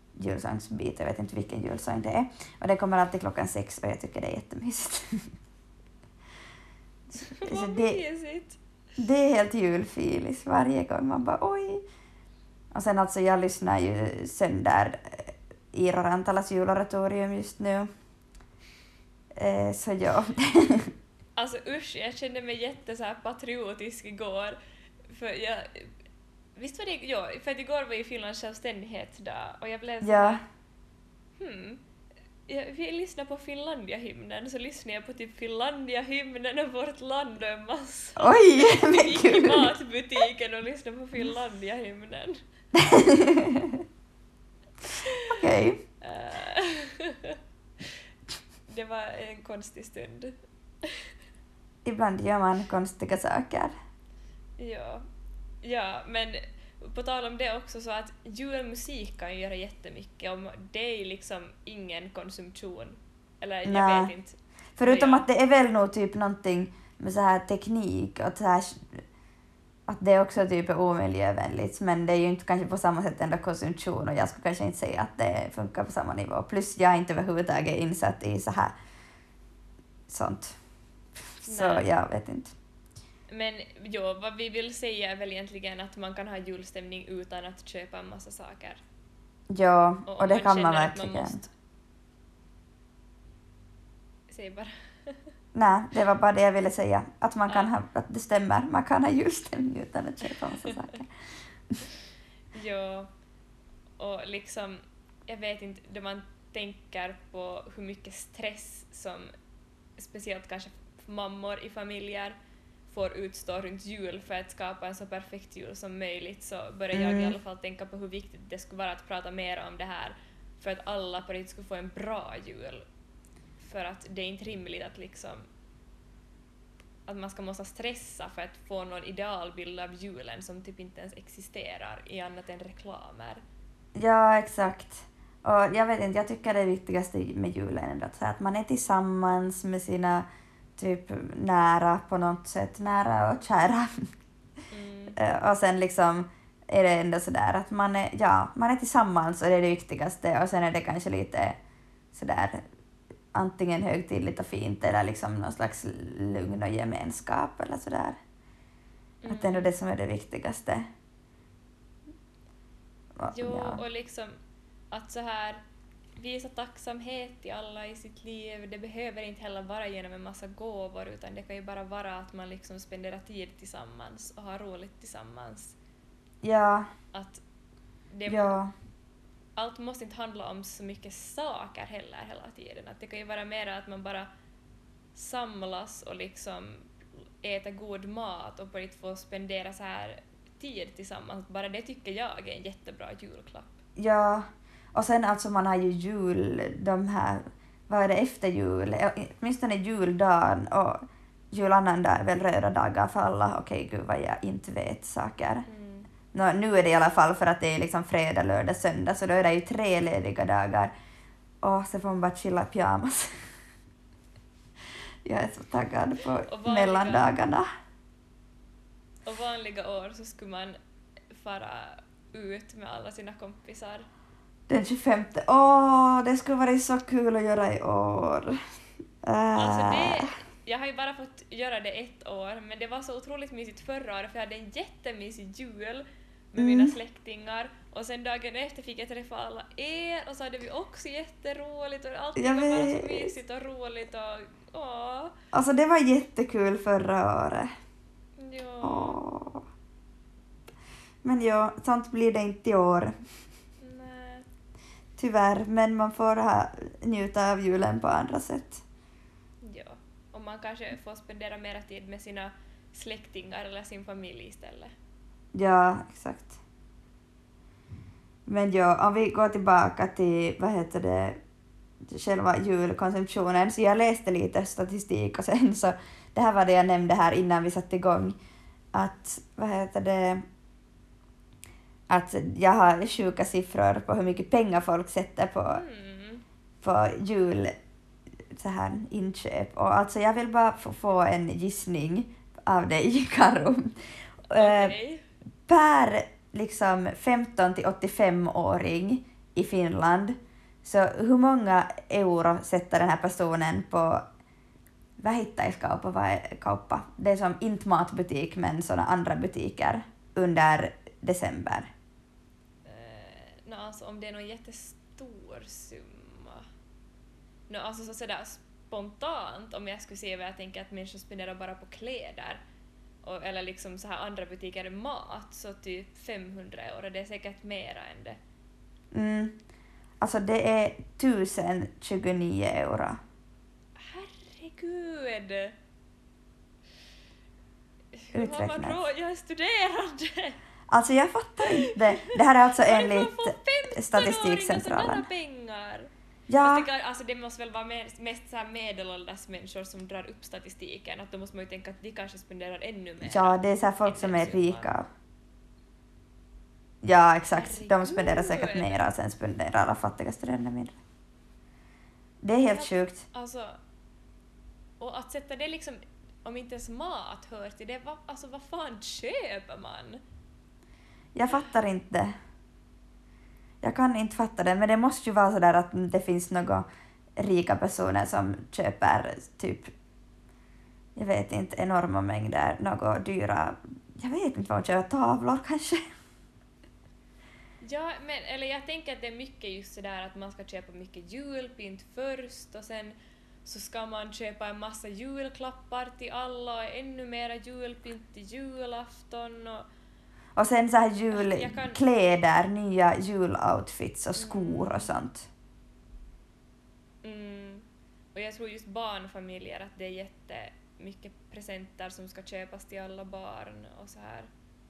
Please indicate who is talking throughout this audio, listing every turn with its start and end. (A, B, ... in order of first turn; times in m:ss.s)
0:00.2-0:05.3 A
0:07.2-0:08.6 B
0:07.3-0:08.0 A
0:09.0-0:11.8 A
0:12.7-0:17.9 A
0:19.4-0:20.9 A
0:21.4-0:25.9 B
0:26.6-0:30.4 B
0:30.0-0:30.4 A
0:31.4-0:31.8 B
0:32.5-0:42.4 B
0:38.2-0:39.7 A
0:42.7-0:43.8 A
0:45.0-0:45.4 B
0:45.3-0:45.8 A
0:46.0-0:47.4 B
0:48.7-0:51.1 B
0:51.8-0:53.7 A
0:54.6-0:55.0 B
0:55.6-1:05.3 B
1:03.6-1:04.1 A
1:04.8-1:09.0 A
1:09.9-1:18.8 A
1:20.1-1:20.6 A
1:21.4-1:22.6 A
1:21.5-1:21.9 B
1:23.3-1:28.8 B
1:29.5-1:31.4 A
1:30.1-1:31.5 B
1:34.3-1:35.3 B
1:35.6-1:41.1 A
1:42.5-1:43.1 B
1:44.0-1:49.3 B
1:50.0-1:52.4 B
1:52.9-2:02.8 B
1:56.9-1:57.4 A
2:03.6-2:05.4 B
2:07.1-2:13.4 B
2:14.0-2:20.3 A
2:20.8-2:24.1 A
2:24.7-2:25.2 B
2:25.2-2:31.6 A
2:32.1-2:32.6 A
2:33.3-2:38.2 A
2:39.2-2:39.7 B
2:39.3-2:40.8 A
2:43.2-2:43.8 A
2:43.3-2:44.4 B
2:44.9-2:45.6 B
2:46.2-2:55.8 B
2:56.4-2:56.9 A
2:57.1-2:57.4 B
2:58.1-2:58.6 B
2:58.3-2:58.7 A
2:59.6-3:04.3 B
3:05.2-3:06.9 B
3:07.4-3:13.8 B
3:14.0-3:25.6 A
3:25.7-3:26.1 B
3:26.3-3:30.9 A
3:31.6-3:33.4 A
3:35.2-3:37.7 A
3:36.4-3:37.3 B
3:39.3-3:40.8 B
3:41.3-3:44.1 B
3:44.7-3:48.6 A
3:49.2-3:50.3 A
3:49.6-4:05.3 B
3:56.6-3:57.0 A
4:02.4-4:03.3 A
4:05.5-4:07.7 A
4:08.4-4:09.2 B
4:08.8-4:09.6 A
4:11.2-4:13.1 A
4:13.8-4:14.5 B
4:15.2-4:18.8 A
4:19.6-4:24.9 B
4:25.6-4:26.6 A
4:28.5-4:31.4 A
4:32.0-4:38.4 A
4:38.9-4:40.4 A
4:42.1-4:45.8 A
4:45.7-4:46.4 B
4:46.8-4:47.7 A
4:48.5-4:55.0 A
4:54.5-4:55.2 B
4:55.7-5:04.2 A
5:05.2-5:11.9 A
5:12.8-5:16.7 B
5:17.7-5:22.6 B
5:23.2-5:28.4 B
5:29.1-5:29.6 A
5:30.2-5:33.2 A
5:34.0-5:35.8 B
5:38.2-5:40.6 B
5:38.3-5:39.0 A
5:40.9-5:45.3 A
5:41.6-5:55.0 B
5:46.5-5:46.9 A
5:53.2-5:55.1 A
5:57.0-6:01.0 A
5:57.5-5:59.0 B
6:02.4-6:03.2 A
6:02.7-6:03.8 B
6:05.0-6:10.2 B
6:11.4-6:12.3 A
6:13.8-6:16.9 A
6:17.4-6:19.9 A
6:21.2-6:26.0 A
6:27.8-6:39.9 B
6:40.6-6:45.5 A
6:41.3-6:42.0 B
6:44.3-6:45.1 B
6:47.2-6:54.5 B